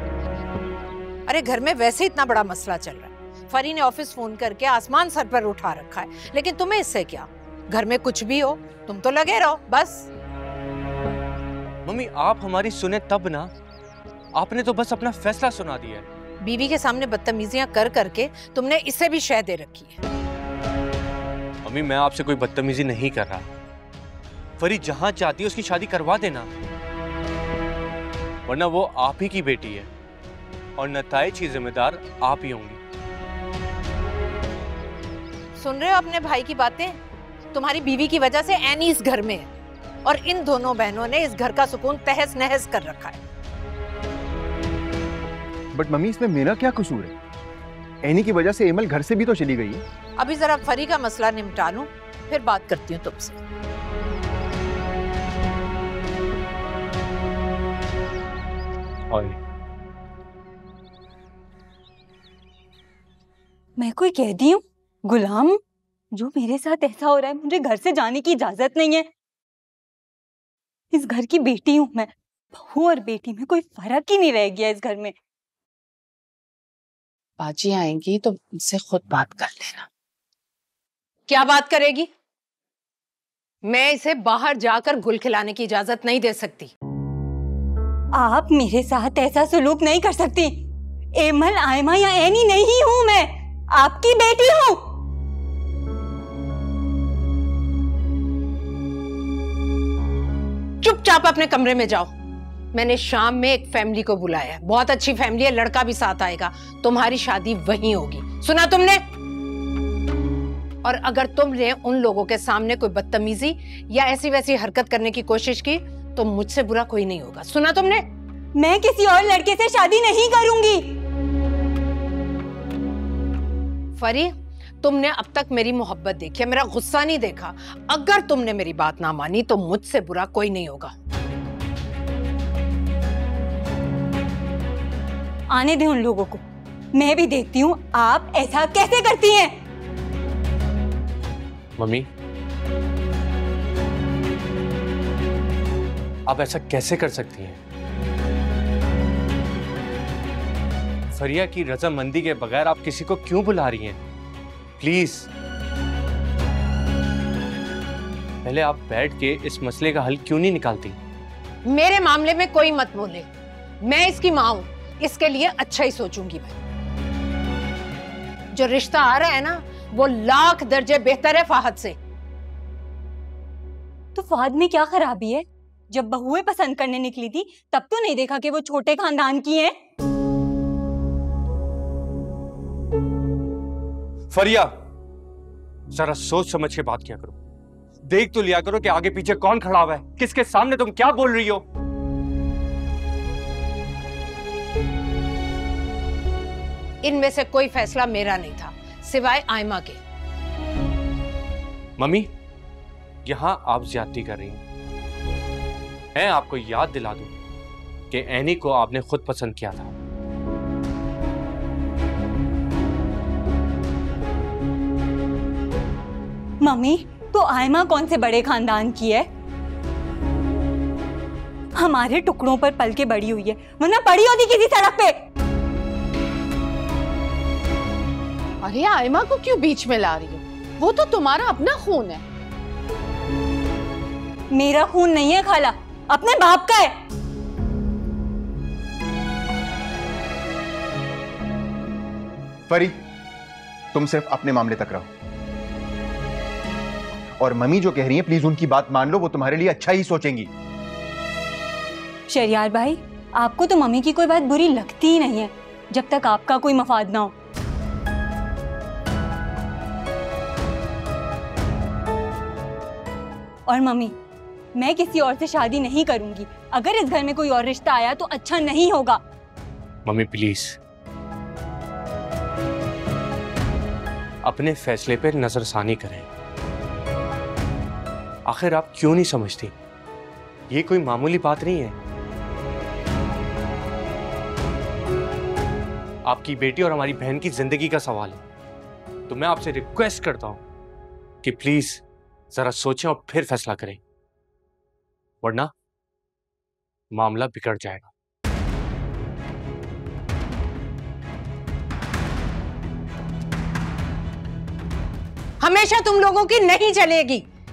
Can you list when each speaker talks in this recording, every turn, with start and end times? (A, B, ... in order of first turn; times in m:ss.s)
0:01.3-0:10.1 A
0:11.8-0:13.5 B
0:14.3-0:16.0 B
0:16.4-0:20.0 A
0:21.6-0:23.4 B
0:24.6-0:26.5 B
0:28.5-0:29.9 B
0:30.8-0:32.8 B
0:35.6-0:37.0 A
0:37.5-0:39.5 A
0:40.0-0:43.2 A
0:45.7-0:47.1 C
0:48.0-0:49.8 C
0:50.2-0:53.4 A
0:59.1-0:59.4 B
1:03.8-1:05.6 D
1:06.1-1:09.0 D
1:10.9-1:15.1 D
1:17.4-1:19.9 E
1:21.3-1:22.1 A
1:23.6-1:26.7 A
1:28.1-1:30.6 D
1:31.2-1:34.8 D
1:40.8-1:42.1 A
1:42.7-1:49.0 A
1:50.8-1:58.0 A
1:58.6-2:00.9 D
2:04.0-2:10.9 A
2:15.5-2:16.4 D
2:16.9-2:19.6 D
2:21.8-2:22.1 B
2:26.3-2:27.6 B
2:31.1-2:34.0 B
2:34.8-2:35.3 B
2:38.4-2:41.0 B
2:41.7-2:43.3 A
2:43.8-2:46.6 A
2:48.5-2:52.0 A
2:54.1-2:59.7 D
3:04.3-3:04.7 B
3:05.9-3:07.4 B
3:08.0-3:11.6 B
3:17.0-3:20.0 A
3:22.0-3:22.3 B
3:23.2-3:24.6 B
3:26.2-3:27.3 B
3:28.1-3:29.9 B
3:36.6-3:39.3 D
3:41.7-3:45.2 D
3:48.7-3:49.5 A
3:49.4-3:52.2 E
3:54.5-3:56.9 D
4:02.7-4:03.0 C
4:03.9-4:05.1 C
4:07.4-4:10.5 C
4:12.3-4:17.3 D
4:23.7-4:24.1 D
4:24.8-4:29.2 D
4:30.0-4:30.8 B
4:34.4-4:36.3 B
4:38.5-4:39.7 B
4:40.7-4:42.0 B
4:46.2-4:48.4 B
4:49.3-4:50.6 B
4:51.4-4:54.0 B
4:55.4-4:55.7 B
4:57.1-4:58.1 B
5:05.6-5:07.4 A